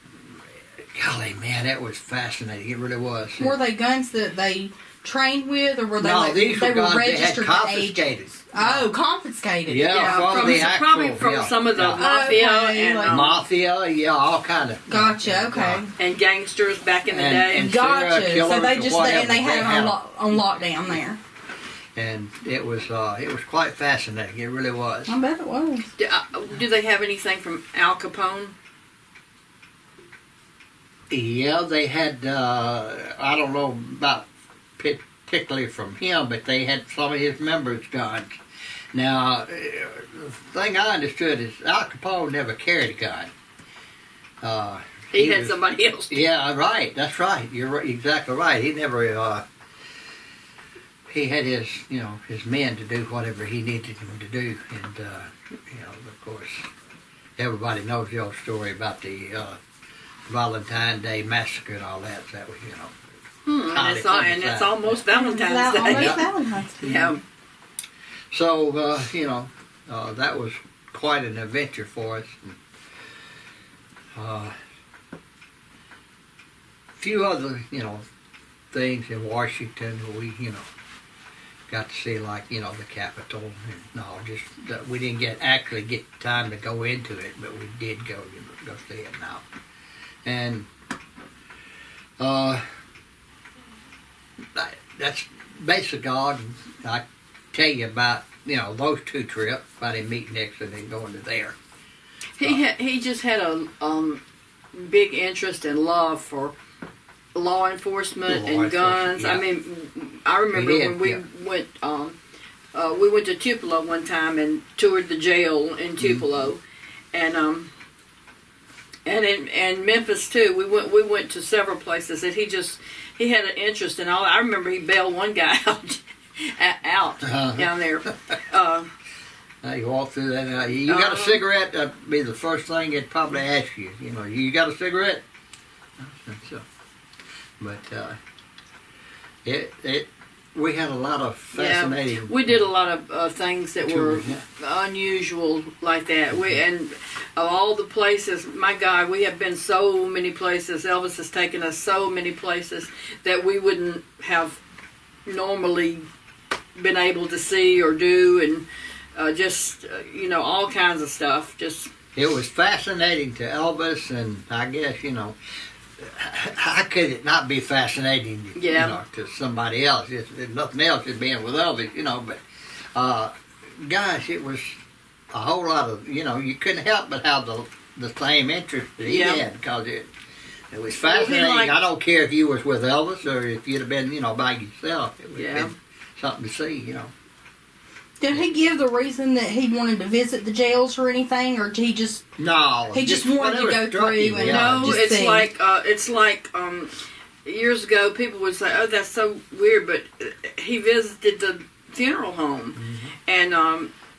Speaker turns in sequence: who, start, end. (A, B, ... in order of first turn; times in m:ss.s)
0:00.8-0:03.6 A
0:03.4-0:10.7 B
0:06.0-0:08.9 A
0:09.7-0:12.3 A
0:09.9-0:13.4 C
0:12.0-0:13.2 B
0:13.1-0:15.8 A
0:14.9-0:15.9 B
0:16.0-0:17.7 C
0:17.1-0:20.0 A
0:17.6-0:21.2 B
0:22.0-0:25.2 A
0:25.1-0:25.8 B
0:26.0-0:28.5 C
0:31.1-0:34.2 A
0:34.8-0:38.4 A
0:38.9-0:43.3 A
0:44.4-0:45.6 A
0:45.1-0:46.2 C
0:46.1-0:49.4 A
0:51.1-0:56.7 A
0:57.4-0:59.6 A
1:00.3-1:02.9 A
1:03.4-1:06.2 C
1:03.7-1:05.0 A
1:05.1-1:07.2 B
1:05.8-1:06.2 A
1:06.8-1:07.2 C
1:08.3-1:12.6 A
1:14.2-1:14.5 A
1:17.0-1:18.0 A
1:18.7-1:20.6 A
1:21.7-1:29.4 A
1:30.2-1:30.7 A
1:32.2-1:32.6 A
1:34.5-1:41.6 A
1:42.4-1:44.2 C
1:44.7-1:46.5 C
1:47.3-1:52.2 C
1:48.2-1:49.4 A
1:50.5-1:51.2 A
1:52.7-1:56.6 C
1:56.0-1:56.3 A
1:57.1-1:57.7 C
1:59.0-2:08.9 C
2:07.2-2:07.7 A
2:09.6-2:15.2 A
2:10.8-2:11.4 C
2:16.0-2:16.6 A
2:17.6-2:18.2 A
2:19.4-2:22.7 A
2:21.5-2:34.6 C
2:23.8-2:24.4 A
2:26.3-2:26.6 A
2:35.2-2:36.0 C
2:36.8-2:41.9 C
2:42.1-2:45.3 A
2:46.0-2:52.4 A
2:48.5-2:49.0 C
2:52.9-2:54.8 A
2:55.3-3:00.1 A
2:59.0-2:59.4 C
3:00.7-3:07.1 A
3:01.0-3:01.8 C
3:05.3-3:05.7 C
3:08.2-3:12.2 B
3:12.4-3:15.0 A
3:12.9-3:15.5 B
3:14.4-3:23.9 C
3:22.8-3:23.1 A